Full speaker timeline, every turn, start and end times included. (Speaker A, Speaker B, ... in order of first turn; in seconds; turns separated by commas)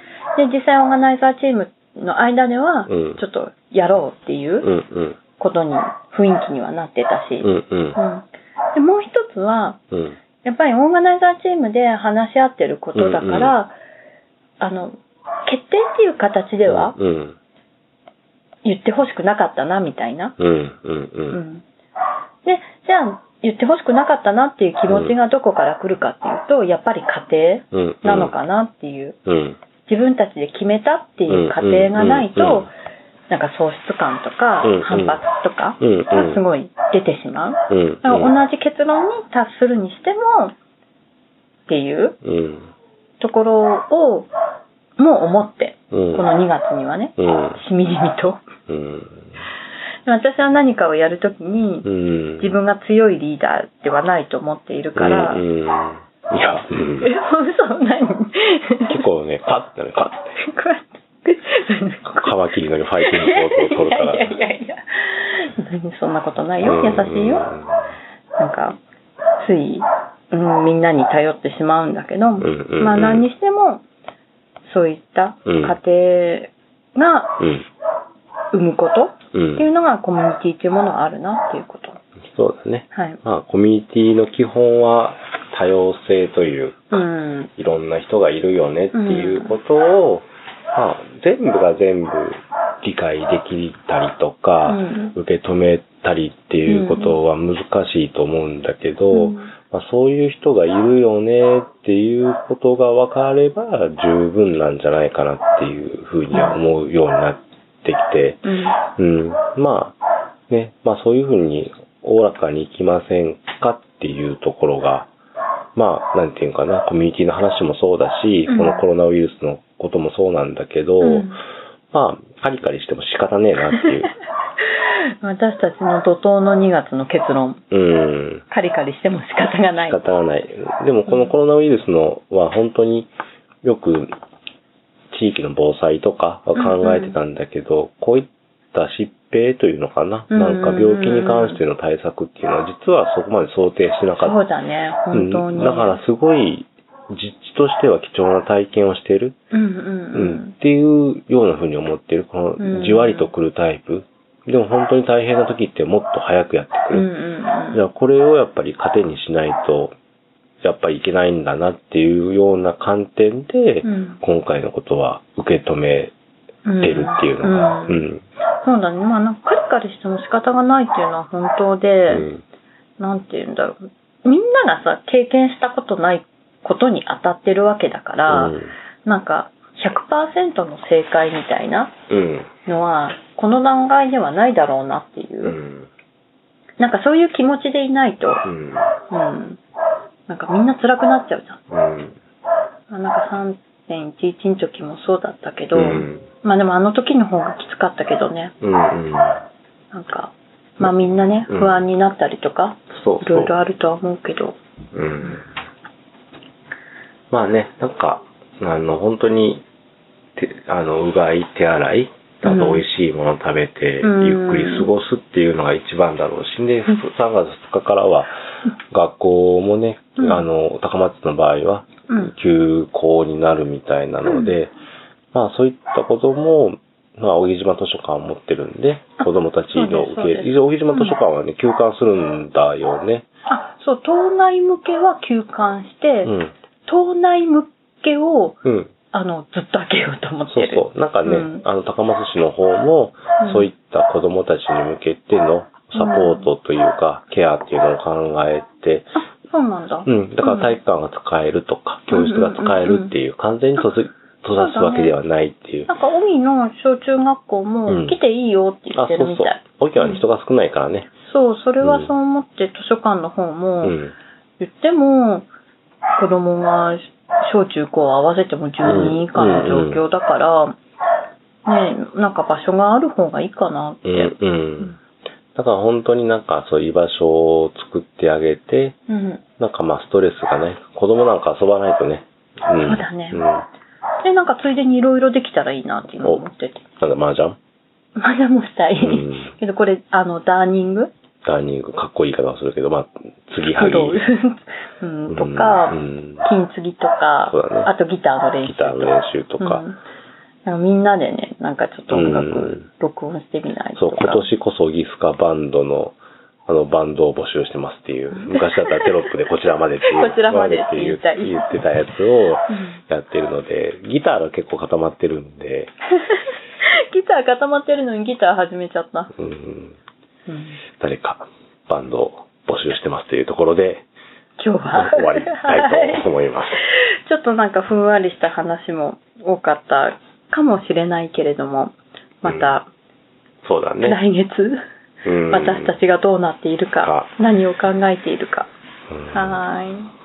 Speaker A: 0.3-4.7, Speaker B: 2.9-3.2, Speaker B: 4.6-5.2, Speaker A: 5.4-9.8, Speaker B: 7.4-8.0, Speaker B: 9.9-10.2, Speaker A: 10.4-13.7, Speaker B: 12.9-13.5, Speaker A: 14.6-14.9, Speaker A: 15.5-16.9, Speaker B: 16.6-17.4, Speaker A: 18.6-20.4, Speaker B: 20.4-21.4, Speaker A: 21.3-21.6, Speaker A: 22.4-29.2, Speaker B: 24.9-25.1, Speaker B: 27.7-28.3, Speaker B: 29.2-29.6, Speaker A: 29.9-32.7, Speaker B: 31.3-32.7, Speaker A: 33.3-40.5, Speaker B: 34.6-35.2, Speaker B: 35.8-36.4, Speaker B: 37.7-38.3, Speaker A: 41.7-42.2, Speaker B: 42.2-42.7, Speaker A: 43.2-44.3, Speaker A: 45.0-48.4, Speaker B: 45.9-46.2, Speaker B: 47.2-47.6, Speaker B: 48.7-49.3, Speaker A: 50.0-51.9, Speaker B: 51.8-52.6, Speaker A: 52.4-55.4, Speaker B: 55.0-57.1, Speaker A: 57.0-59.0, Speaker B: 58.9-60.4, Speaker A: 60.4-62.3, Speaker B: 62.2-64.3, Speaker A: 63.0-67.5, Speaker B: 66.6-67.8, Speaker A: 68.4-68.8, Speaker A: 69.4-73.8, Speaker B: 72.4-73.3, Speaker A: 74.6-77.4, Speaker B: 75.5-75.8, Speaker B: 77.4-77.6, Speaker A: 78.5-82.0, Speaker B: 79.3-79.7, Speaker B: 82.3-87.0, Speaker A: 82.9-83.2, Speaker A: 86.9-87.5, Speaker B: 87.6-110.0, Speaker A: 88.9-89.6, Speaker A: 94.7-95.2, Speaker A: 96.7-97.2, Speaker A: 99.1-99.5, Speaker A: 108.4-108.8, Speaker B: 110.5-115.1, Speaker B: 115.7-121.3, Speaker A: 118.5-118.8, Speaker A: 121.0-121.4, Speaker B: 121.9-124.1, Speaker A: 124.6-127.6, Speaker B: 127.7-128.4, Speaker A: 128.5-130.0, Speaker B: 129.9-133.1, Speaker B: 133.6-134.1, Speaker B: 135.1-144.4, Speaker A: 136.5-137.2, Speaker A: 140.3-141.6, Speaker A: 144.2-146.0, Speaker B: 145.1-149.3, Speaker A: 149.5-150.5, Speaker B: 150.1-157.1, Speaker A: 152.6-153.3, Speaker A: 156.9-157.8, Speaker B: 157.7-159.9, Speaker B: 160.6-166.1, Speaker A: 163.8-164.2, Speaker A: 166.6-168.0, Speaker B: 166.8-168.2, Speaker A: 168.6-172.3, Speaker B: 172.1-172.4, Speaker A: 173.0-181.9, Speaker B: 178.3-178.7, Speaker B: 182.1-182.5, Speaker A: 182.7-185.6, Speaker B: 185.4-185.9, Speaker A: 186.8-188.4, Speaker B: 188.4-188.9, Speaker A: 189.1-189.6, Speaker A: 190.3-191.6, Speaker B: 191.7-192.2, Speaker A: 192.9-198.5, Speaker B: 195.7-196.2, Speaker B: 198.6-199.4, Speaker A: 199.9-204.6, Speaker B: 201.5-201.8, Speaker B: 202.9-203.5, Speaker B: 204.9-205.4, Speaker B: 207.3-209.6, Speaker B: 210.3-218.3, Speaker A: 212.4-212.8, Speaker A: 214.0-214.9, Speaker B: 218.9-224.7, Speaker A: 220.2-220.4, Speaker A: 224.2-224.5, Speaker B: 225.3-233.2, Speaker A: 229.2-231.2, Speaker A: 233.5-236.3, Speaker B: 236.2-236.5, Speaker A: 236.8-238.6, Speaker B: 238.6-238.9, Speaker A: 239.1-241.6, Speaker B: 240.5-249.1, Speaker A: 243.4-243.7, Speaker A: 245.9-246.5, Speaker A: 249.5-250.8, Speaker B: 250.1-255.9, Speaker A: 252.1-253.1, Speaker A: 254.6-255.2, Speaker A: 255.9-260.2, Speaker B: 257.9-258.2, Speaker B: 258.9-261.1, Speaker A: 261.3-263.9, Speaker B: 261.8-262.1, Speaker B: 263.8-264.1, Speaker A: 264.6-265.5, Speaker A: 266.2-270.8, Speaker B: 268.8-270.0, Speaker A: 271.6-274.9, Speaker B: 274.0-274.9, Speaker B: 275.5-279.0, Speaker A: 279.1-279.4, Speaker B: 279.6-283.6, Speaker A: 282.8-283.5, Speaker A: 284.2-286.8, Speaker B: 287.0-287.6, Speaker A: 288.2-291.1, Speaker B: 289.0-289.5, Speaker B: 291.4-294.2, Speaker A: 293.7-300.0, Speaker B: 295.3-296.4, Speaker B: 297.5-297.9, Speaker B: 298.6-299.8, Speaker A: 300.6-304.5, Speaker B: 302.1-302.8, Speaker B: 303.9-306.1, Speaker B: 306.7-315.9, Speaker A: 308.3-309.3, Speaker A: 310.0-311.8, Speaker A: 312.7-313.0, Speaker A: 316.3-319.3, Speaker B: 319.4-319.9, Speaker A: 320.5-320.8, Speaker B: 321.0-324.0, Speaker A: 324.6-326.3, Speaker B: 324.9-326.8, Speaker A: 326.8-332.9, Speaker B: 332.4-332.7, Speaker B: 333.6-334.2, Speaker A: 334.0-334.8, Speaker B: 335.2-335.9, Speaker A: 335.5-338.7, Speaker B: 337.0-337.3, Speaker B: 339.1-339.6, Speaker A: 339.3-340.1